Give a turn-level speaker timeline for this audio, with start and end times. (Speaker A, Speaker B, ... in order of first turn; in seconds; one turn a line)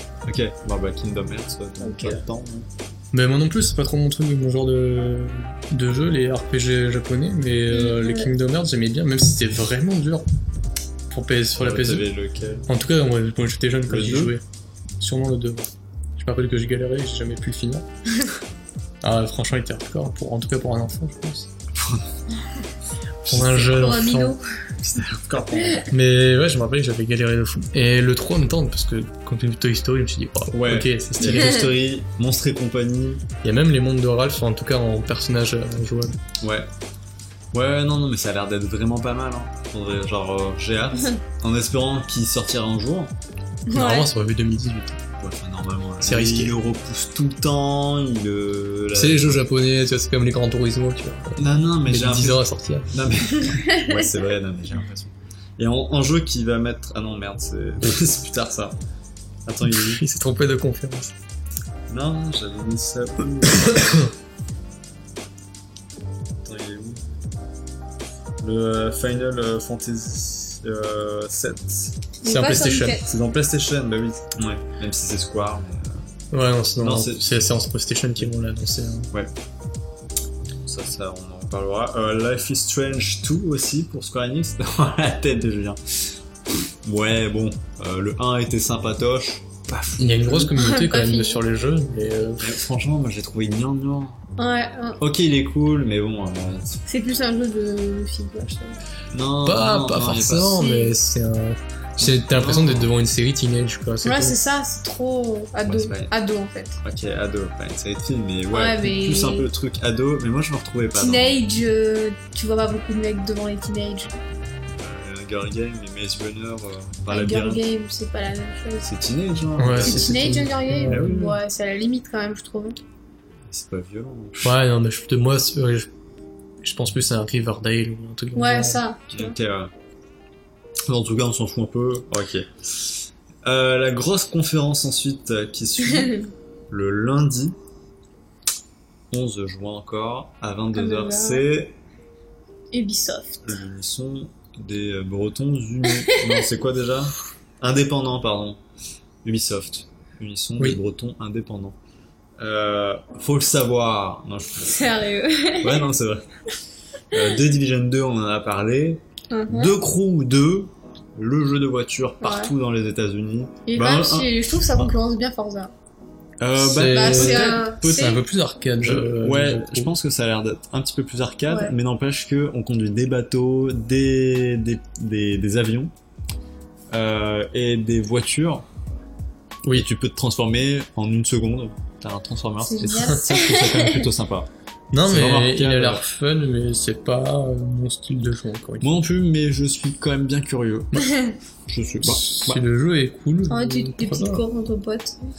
Speaker A: 0.2-2.6
Speaker B: 1.8-2.2
Speaker C: 3.1-10.2
Speaker B: 7.7-8.3
Speaker C: 11.1-12.1
Speaker A: 11.6-12.7
Speaker C: 12.7-14.4
Speaker A: 13.9-14.3
Speaker C: 15.0-17.9
Speaker C: 19.0-21.5
Speaker A: 21.7-22.1
Speaker A: 23.2-23.9
Speaker C: 23.2-24.4
Speaker B: 23.6-24.4
Speaker A: 24.8-25.9
Speaker C: 25.9-31.7
Speaker A: 30.5-33.2
Speaker B: 31.2-31.6
Speaker C: 33.4-36.2
Speaker A: 36.4-36.7
Speaker A: 37.5-43.1
Speaker B: 43.7-44.1
Speaker C: 43.7-45.0
Speaker A: 45.2-49.4
Speaker C: 46.0-46.5
Speaker C: 48.9-52.9
Speaker A: 51.4-58.8
Speaker B: 53.4-54.0
Speaker A: 59.5-60.0
Speaker C: 59.6-61.1
Speaker A: 61.9-64.0
Speaker C: 63.5-64.0
Speaker A: 66.4-67.0
Speaker A: 68.4-72.0
Speaker B: 72.2-73.1
Speaker C: 72.2-73.0
Speaker A: 73.0-76.0
Speaker C: 76.3-79.1
Speaker A: 76.8-77.4
Speaker A: 80.6-90.5
Speaker C: 90.0-92.5
Speaker B: 90.5-91.4
Speaker A: 92.4-94.2
Speaker B: 94.4-95.0
Speaker A: 95.0-96.8
Speaker B: 96.8-98.8
Speaker A: 99.1-100.6
Speaker C: 99.4-104.4
Speaker B: 100.5-100.9
Speaker A: 102.0-102.9
Speaker B: 104.0-106.8
Speaker A: 105.6-106.1
Speaker A: 106.8-111.4
Speaker B: 108.5-109.5
Speaker B: 110.9-114.2
Speaker A: 114.8-117.6
Speaker B: 117.1-118.9
Speaker A: 118.8-121.3
Speaker C: 119.6-121.2
Speaker B: 119.8-122.8
Speaker A: 123.5-124.6
Speaker C: 124.4-125.9
Speaker C: 126.6-128.8
Speaker B: 128.3-129.3
Speaker A: 129.1-129.7
Speaker A: 130.9-137.6
Speaker B: 135.8-136.3
Speaker A: 139.1-141.8
Speaker B: 140.7-141.4
Speaker B: 142.7-143.5
Speaker A: 143.4-148.6
Speaker B: 146.1-146.3
Speaker A: 149.2-151.8
Speaker A: 152.4-154.9
Speaker B: 154.7-155.8
Speaker A: 155.6-156.3
Speaker A: 157.1-164.9
Speaker B: 159.3-159.7
Speaker B: 162.2-162.5
Speaker B: 163.7-165.7
Speaker A: 166.4-168.2
Speaker C: 166.6-169.9
Speaker B: 166.9-168.2
Speaker A: 168.8-175.9
Speaker B: 171.5-171.7
Speaker A: 176.9-178.7
Speaker A: 179.7-184.5
Speaker B: 182.6-184.1
Speaker C: 184.9-188.9
Speaker A: 185.0-186.0
Speaker A: 188.8-191.1
Speaker B: 191.0-191.3
Speaker A: 191.7-192.6
Speaker C: 192.0-194.4
Speaker B: 193.5-195.2